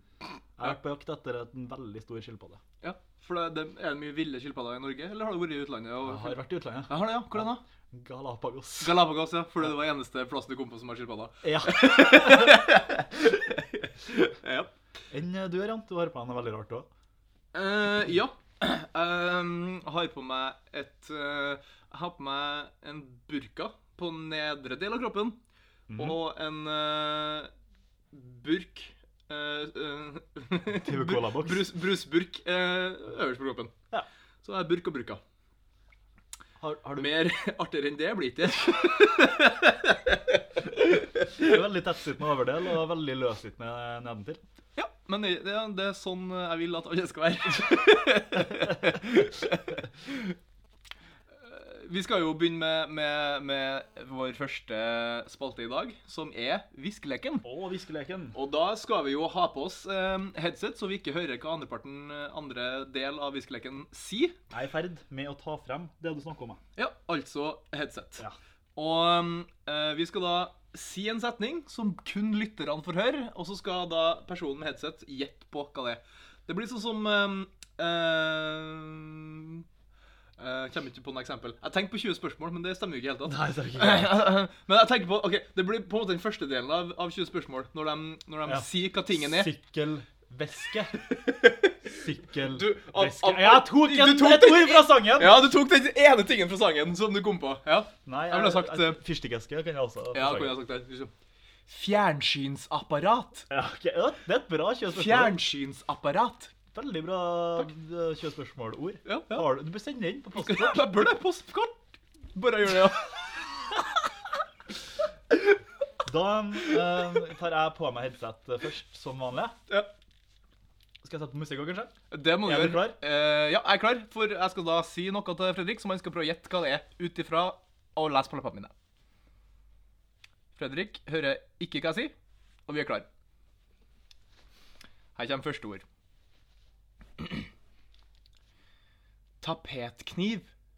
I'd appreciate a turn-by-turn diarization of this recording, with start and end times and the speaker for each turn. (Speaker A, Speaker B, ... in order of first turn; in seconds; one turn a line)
Speaker A: 0.6-2.6
Speaker B: 2.8-7.6
Speaker A: 6.0-9.0
Speaker B: 8.8-14.7
Speaker A: 11.4-12.7
Speaker A: 15.1-16.9
Speaker B: 17.5-25.4
Speaker A: 25.9-26.2
Speaker B: 26.0-27.5
Speaker B: 28.1-33.7
Speaker A: 30.8-31.7
Speaker B: 34.4-35.2
Speaker A: 36.6-37.1
Speaker B: 37.0-41.5
Speaker A: 41.4-44.4
Speaker B: 44.8-50.4
Speaker B: 51.4-57.5
Speaker A: 57.4-58.4
Speaker B: 58.3-64.4
Speaker A: 64.5-66.6
Speaker B: 66.8-68.2
Speaker B: 68.8-79.7
Speaker B: 80.4-89.5
Speaker A: 83.2-84.2
Speaker A: 88.5-91.0
Speaker B: 91.0-91.8
Speaker A: 91.9-95.4
Speaker B: 92.5-99.0
Speaker A: 98.1-100.6
Speaker B: 100.1-101.1
Speaker B: 101.7-103.5
Speaker A: 103.5-105.4
Speaker B: 104.9-106.5
Speaker A: 106.7-111.0
Speaker B: 109.0-109.5
Speaker B: 110.3-111.8
Speaker B: 112.3-113.5
Speaker A: 116.1-119.6
Speaker A: 121.0-123.0
Speaker B: 122.1-128.7
Speaker B: 130.6-132.1
Speaker B: 132.7-133.1
Speaker B: 135.2-135.8
Speaker B: 139.4-140.5